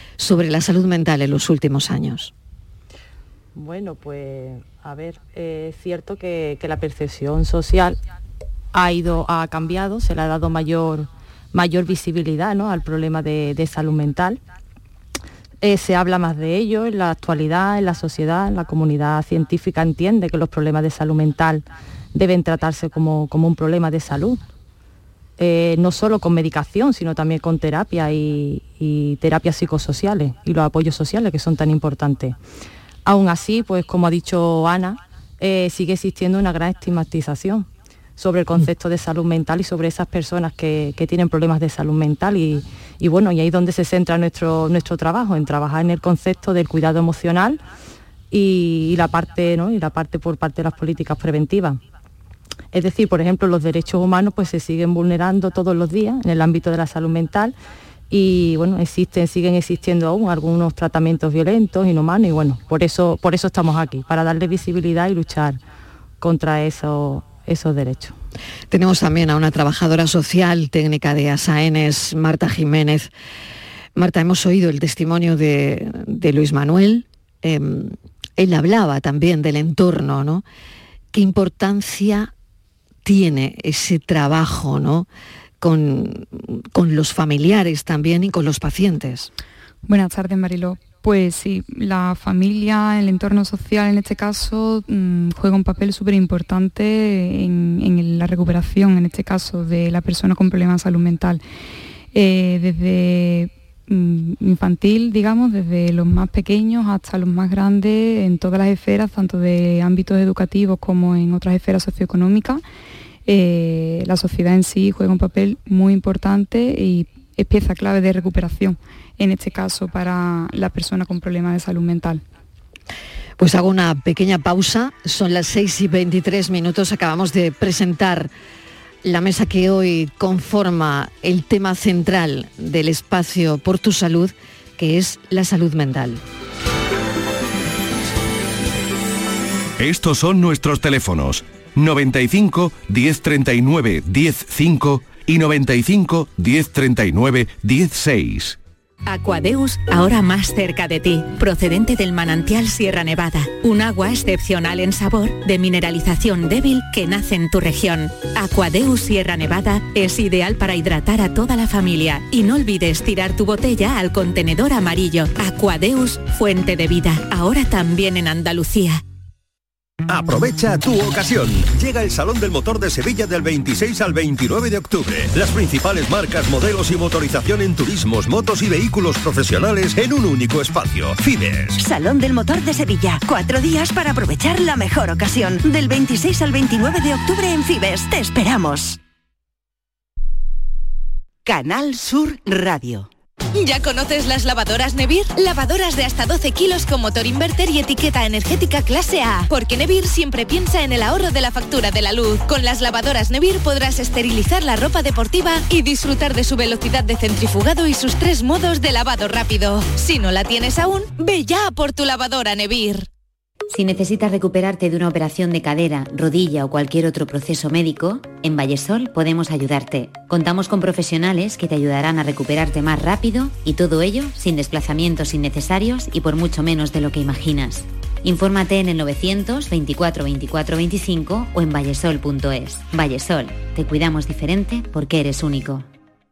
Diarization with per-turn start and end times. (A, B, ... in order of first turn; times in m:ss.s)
0:00.2-0:02.3 A
0:03.5-0:08.0 B
0:08.7-0:14.4 B
0:15.6-0:24.4 B
0:25.4-0:32.4 B
0:33.0-0:47.6 B
0:48.3-0:51.8 B
0:52.7-0:57.6 B
0:58.1-1:05.6 B
1:06.2-1:08.2 B
1:08.7-1:13.1 A
1:13.9-1:20.4 A
1:21.1-1:22.3 A
1:23.0-1:25.1 A
1:25.6-1:29.3 A
1:29.8-1:41.4 C
1:42.1-1:52.6 C
1:53.2-2:02.2 C
2:03.4-2:08.3 A
2:09.0-2:16.2 A
2:19.8-2:28.6 D
2:29.0-2:49.0 E
2:50.1-3:01.8 F
3:01.7-3:09.0 G
3:11.4-3:13.1 G
3:13.5-3:33.1 H
3:33.7-3:55.8 I